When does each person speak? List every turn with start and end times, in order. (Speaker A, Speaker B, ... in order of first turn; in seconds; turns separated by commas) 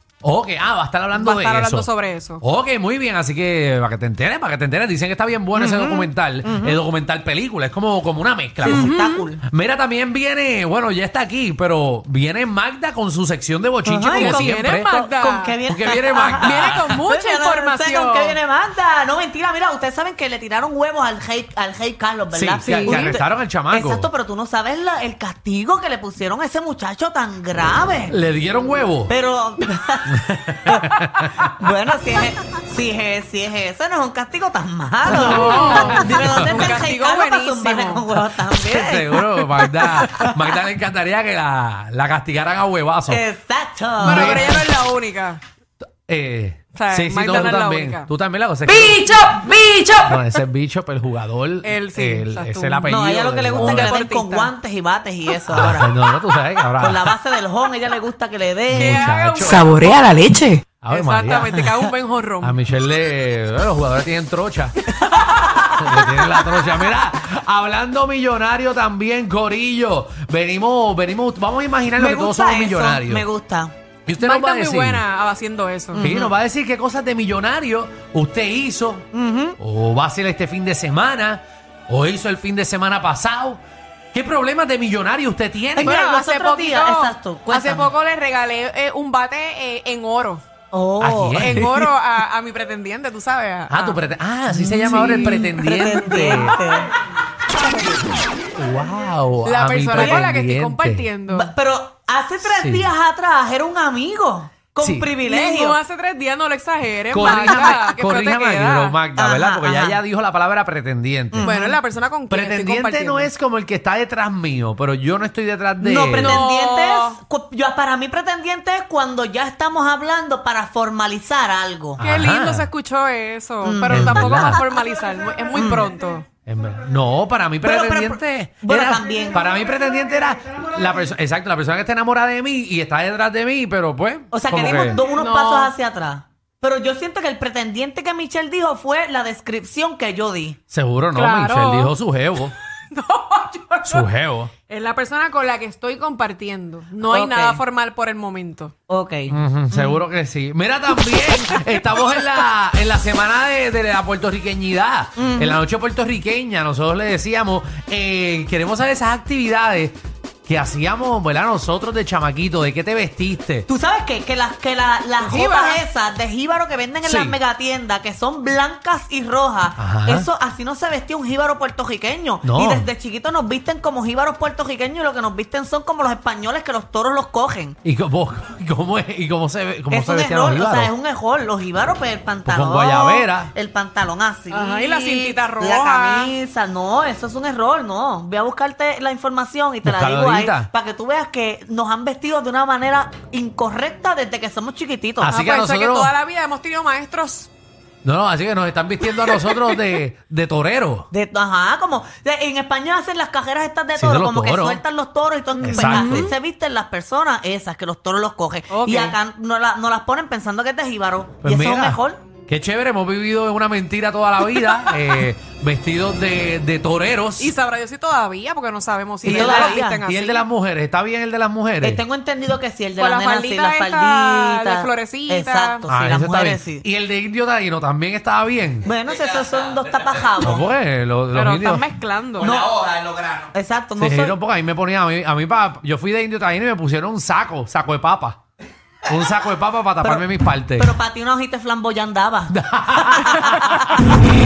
Speaker A: 0.2-1.9, Speaker B: 1.1-2.4, Speaker A: 2.4-8.9, Speaker C: 5.5-6.8, Speaker C: 8.6-9.4, Speaker B: 8.6-9.3, Speaker A: 9.4-14.9, Speaker C: 13.8-28.1, Speaker B: 14.1-15.6, Speaker A: 15.7-17.0, Speaker B: 16.4-18.4, Speaker A: 22.3-24.1, Speaker B: 22.6-23.2, Speaker A: 28.1-29.1, Speaker C: 29.1-39.2, Speaker A: 30.1-31.5, Speaker B: 35.1-38.0, Speaker A: 35.1-36.8, Speaker A: 38.5-43.2, Speaker B: 39.5-40.4, Speaker C: 43.1-44.5, Speaker A: 44.0-44.7, Speaker B: 44.0-45.4, Speaker A: 45.9-49.1, Speaker B: 46.8-48.1, Speaker B: 48.7-50.1, Speaker A: 50.0-53.9, Speaker B: 51.6-52.9, Speaker C: 52.9-55.9, Speaker B: 53.5-54.5, Speaker A: 55.5-57.1, Speaker C: 56.8-60.0, Speaker A: 58.7-59.7, Speaker B: 58.7-62.6, Speaker A: 60.8-61.7, Speaker A: 62.4-64.8, Speaker B: 64.9-66.9, Speaker A: 65.4-73.2, Speaker C: 72.0-73.7, Speaker A: 74.1-75.0, Speaker B: 74.2-76.0, Speaker C: 75.9-76.3, Speaker A: 76.0-79.1, Speaker C: 79.1-79.6, Speaker A: 79.6-83.6, Speaker A: 84.1-86.0, Speaker C: 85.8-87.9, Speaker B: 85.8-90.4, Speaker C: 90.7-91.5, Speaker A: 91.0-91.8, Speaker B: 91.4-96.8, Speaker A: 93.7-96.6, Speaker C: 95.6-96.9, Speaker A: 98.6-101.1, Speaker B: 99.5-101.5, Speaker C: 100.0-100.2, Speaker C: 101.3-105.8, Speaker A: 102.4-102.9, Speaker A: 104.8-105.1, Speaker B: 105.2-109.0, Speaker A: 107.1-111.5, Speaker C: 107.2-107.7, Speaker C: 109.2-110.0, Speaker C: 111.3-111.8, Speaker B: 111.4-113.3, Speaker A: 112.3-116.4, Speaker C: 115.8-122.0, Speaker B: 116.1-117.2, Speaker A: 122.0-122.7, Speaker B: 122.0-126.3, Speaker C: 123.6-124.6, Speaker A: 123.9-124.6, Speaker C: 125.5-125.9, Speaker A: 126.5-135.0, Speaker C: 127.6-129.5, Speaker C: 134.3-140.6, Speaker B: 134.7-135.7, Speaker A: 140.7-142.6, Speaker B: 141.2-141.9, Speaker B: 142.9-144.1, Speaker A: 143.9-144.5, Speaker B: 144.7-148.7, Speaker C: 147.0-147.6, Speaker C: 148.9-150.0, Speaker A: 149.3-163.7, Speaker C: 155.2-155.6, Speaker C: 163.7-177.8, Speaker B: 165.2-165.8, Speaker A: 167.0-167.4, Speaker A: 169.8-170.3, Speaker A: 172.4-172.9, Speaker A: 177.8-180.9, Speaker C: 179.9-195.4, Speaker A: 182.4-183.5, Speaker B: 184.5-186.3, Speaker A: 189.8-190.7, Speaker A: 195.2-196.1, Speaker B: 195.2-197.5, Speaker A: 198.0-201.1, Speaker B: 199.2-199.8, Speaker C: 201.1-212.2, Speaker A: 204.0-204.8, Speaker B: 205.6-206.3, Speaker A: 205.6-206.3, Speaker B: 208.7-209.2, Speaker A: 211.4-217.5, Speaker B: 217.4-220.4, Speaker A: 219.2-222.0, Speaker C: 219.3-220.0, Speaker C: 221.8-226.8, Speaker B: 223.0-225.9, Speaker A: 225.9-228.9, Speaker C: 228.8-230.6, Speaker D: 229.1-230.3, Speaker A: 230.4-231.8, Speaker B: 231.3-232.5, Speaker D: 232.4-233.5, Speaker C: 232.4-232.8, Speaker C: 233.5-234.3, Speaker A: 234.0-238.4, Speaker A: 239.1-240.9, Speaker C: 240.8-243.9, Speaker A: 242.5-244.1